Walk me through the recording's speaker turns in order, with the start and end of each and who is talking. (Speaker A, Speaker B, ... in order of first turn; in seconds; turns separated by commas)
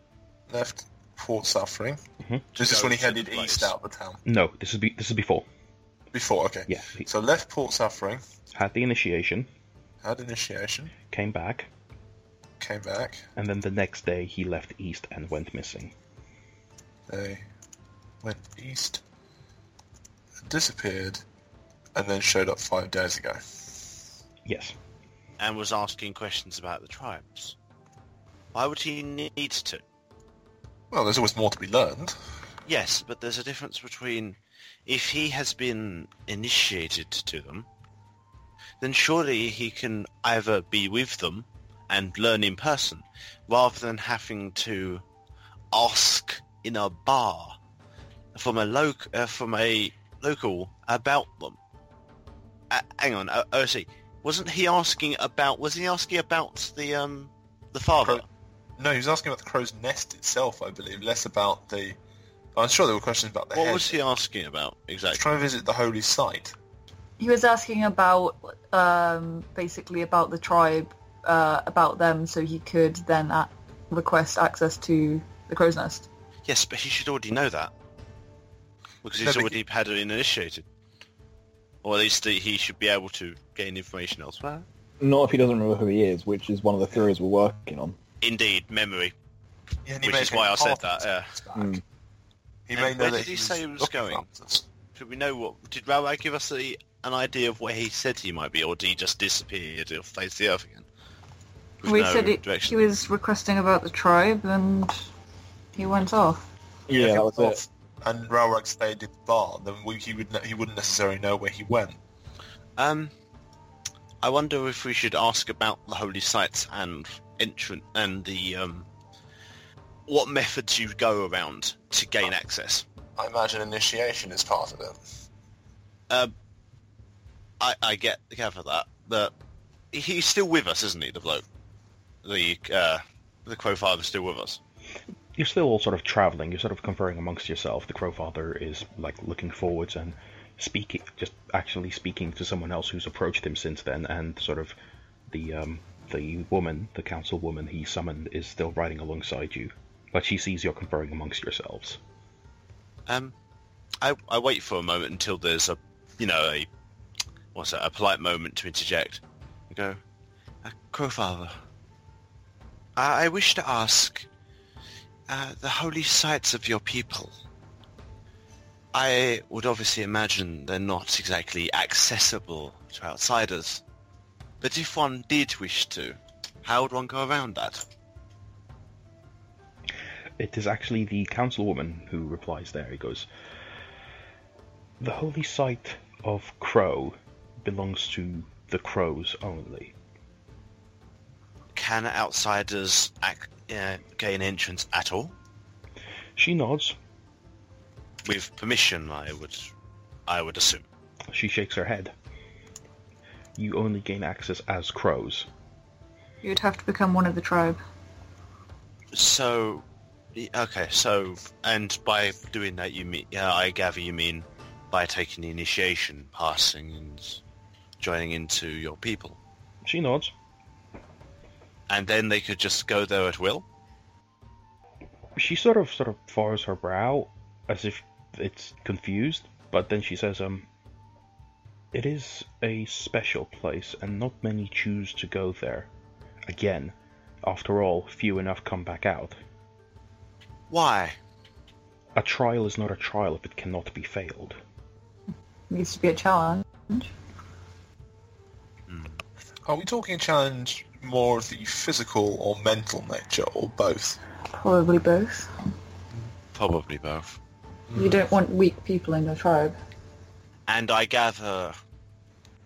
Speaker A: 0.5-2.0, Speaker B: 2.2-2.5, Speaker C: 2.5-3.7, Speaker A: 2.6-4.2, Speaker B: 4.2-5.5, Speaker A: 6.1-8.2, Speaker B: 6.7-7.1, Speaker B: 8.5-9.5, Speaker A: 10.0-10.9, Speaker B: 11.1-11.7, Speaker A: 12.6-13.3, Speaker B: 13.3-15.9, Speaker A: 17.1-17.4, Speaker A: 18.2-19.0, Speaker A: 20.4-21.2, Speaker A: 21.9-23.9, Speaker B: 24.4-24.7, Speaker C: 25.4-27.6, Speaker C: 28.5-29.8, Speaker A: 30.9-32.1, Speaker C: 32.6-37.7, Speaker C: 38.8-45.0, Speaker C: 45.7-47.6, Speaker C: 48.3-51.6, Speaker C: 52.7-58.2, Speaker A: 58.8-62.0, Speaker A: 62.5-64.0, Speaker C: 63.5-65.2, Speaker A: 65.1-66.5, Speaker D: 67.2-76.1, Speaker C: 76.5-77.7, Speaker C: 79.0-80.7, Speaker A: 79.1-79.6, Speaker C: 81.8-84.7, Speaker E: 85.0-88.0, Speaker C: 88.2-89.1, Speaker A: 89.8-91.8, Speaker C: 90.0-91.3, Speaker E: 91.5-91.8, Speaker A: 92.7-94.6, Speaker C: 92.7-94.2, Speaker C: 94.9-100.8, Speaker C: 101.8-102.8, Speaker D: 101.8-105.0, Speaker D: 105.8-106.4, Speaker E: 106.9-107.6, Speaker A: 106.9-112.0, Speaker C: 112.8-113.1, Speaker C: 114.2-118.9, Speaker C: 120.1-122.8, Speaker A: 123.2-125.0, Speaker C: 127.6-129.3, Speaker C: 129.9-131.4, Speaker C: 132.2-134.6, Speaker B: 135.3-144.7, Speaker B: 145.3-152.0, Speaker C: 153.1-153.3, Speaker C: 154.0-156.7, Speaker C: 157.5-160.0, Speaker C: 160.6-161.6, Speaker C: 163.0-164.2, Speaker C: 165.3-167.3, Speaker C: 168.9-173.8, Speaker C: 174.6-177.8, Speaker B: 180.4-183.3, Speaker B: 185.0-189.9, Speaker C: 191.7-195.3, Speaker B: 196.3-196.9, Speaker C: 198.2-199.7, Speaker C: 200.3-200.8, Speaker B: 201.3-202.1, Speaker B: 203.6-205.5, Speaker D: 206.4-207.8, Speaker C: 209.1-217.4, Speaker C: 218.0-219.4, Speaker B: 219.8-220.3, Speaker C: 221.9-223.6, Speaker B: 225.3-230.7, Speaker B: 231.9-235.9, Speaker B: 236.5-239.4, Speaker C: 240.7-241.2, Speaker B: 242.2-244.6, Speaker D: 245.7-247.1, Speaker C: 248.9-249.2, Speaker A: 249.7-254.2, Speaker D: 254.5-255.5, Speaker C: 256.5-257.4, Speaker A: 257.9-258.2, Speaker D: 257.9-259.8, Speaker C: 260.7-261.8